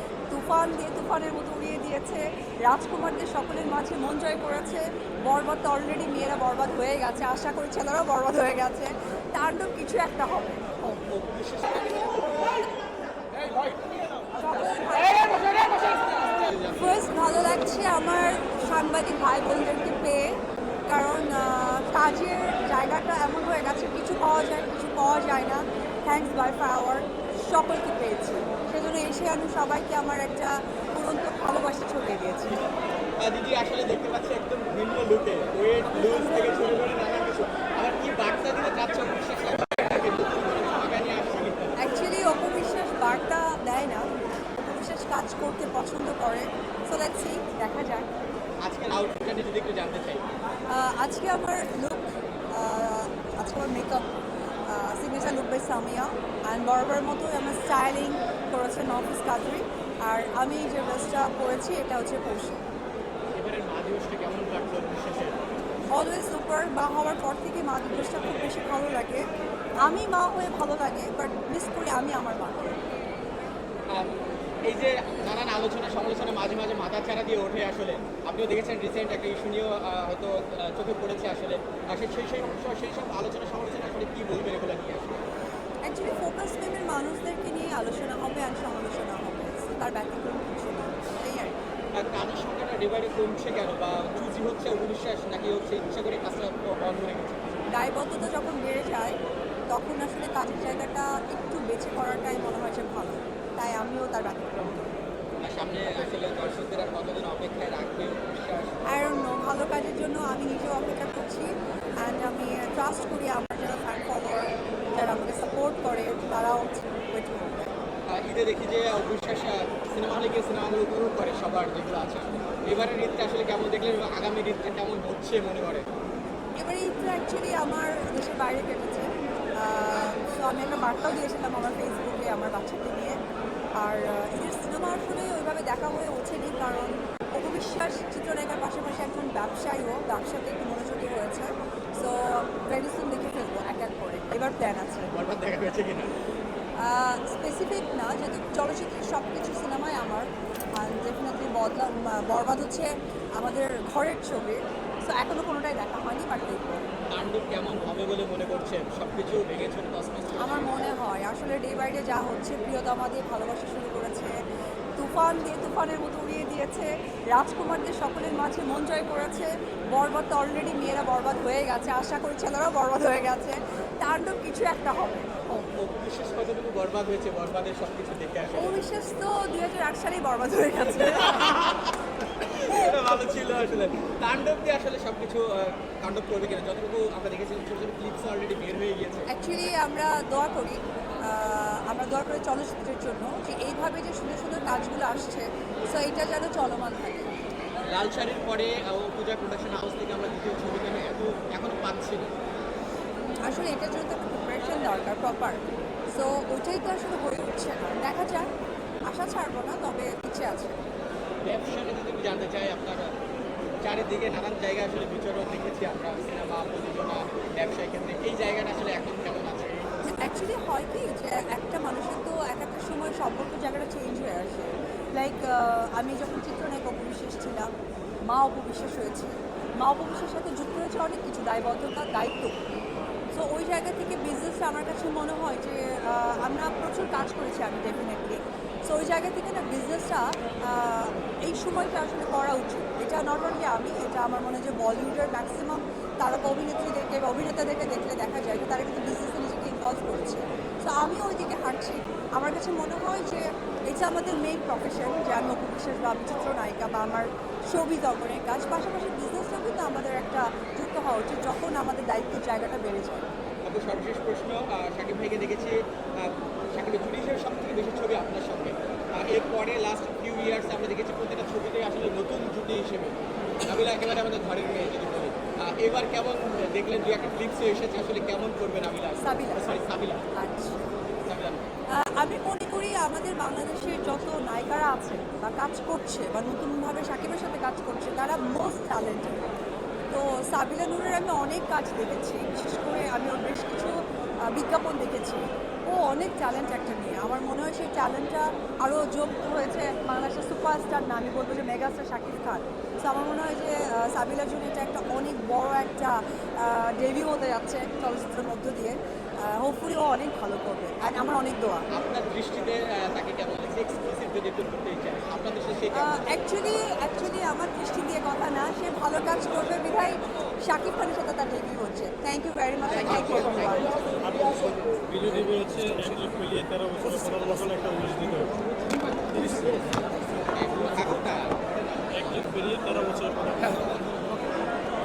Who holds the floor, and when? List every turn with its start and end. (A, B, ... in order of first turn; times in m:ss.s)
0:00.3-0:11.0 A
0:11.0-0:12.5 B
0:14.4-0:15.4 A
0:15.4-0:17.0 B
0:16.6-0:32.6 A
0:33.2-0:41.8 B
0:41.8-0:48.1 A
0:48.6-0:50.2 B
0:50.7-0:54.1 A
0:54.6-1:02.6 A
1:03.4-1:05.4 B
1:05.9-1:09.3 A
1:09.8-1:12.8 A
1:13.9-1:25.2 B
1:25.8-1:31.6 A
1:31.9-1:37.6 B
1:37.7-1:39.2 A
1:39.7-1:44.9 A
1:45.4-1:48.8 B
1:48.8-1:57.7 A
1:58.1-2:05.9 B
2:06.6-2:13.2 A
2:13.8-2:25.1 A
2:25.1-2:26.1 B
2:26.8-2:36.8 A
2:37.1-2:40.9 B
2:40.4-2:44.4 A
2:45.0-2:55.6 A
2:55.7-2:58.8 B
2:58.5-3:01.7 A
3:01.3-3:09.3 B
3:09.3-3:17.3 A
3:17.8-3:22.3 B
3:23.4-3:28.5 A
3:29.0-3:30.8 A
3:31.4-3:33.1 B
3:33.8-3:40.0 B
3:40.0-3:47.7 A
3:48.2-3:52.6 A
3:53.3-4:23.3 A
4:23.6-4:40.3 B
4:39.2-4:39.7 A
4:40.3-4:40.8 A
4:41.2-4:41.7 B
4:41.9-4:49.6 A
4:50.1-5:11.9 A
5:11.9-5:16.5 B
5:15.9-5:23.9 A
5:22.9-5:24.5 B
5:25.1-5:26.4 B
5:25.3-5:28.5 C
5:30.4-5:34.2 B
5:32.5-5:33.4 C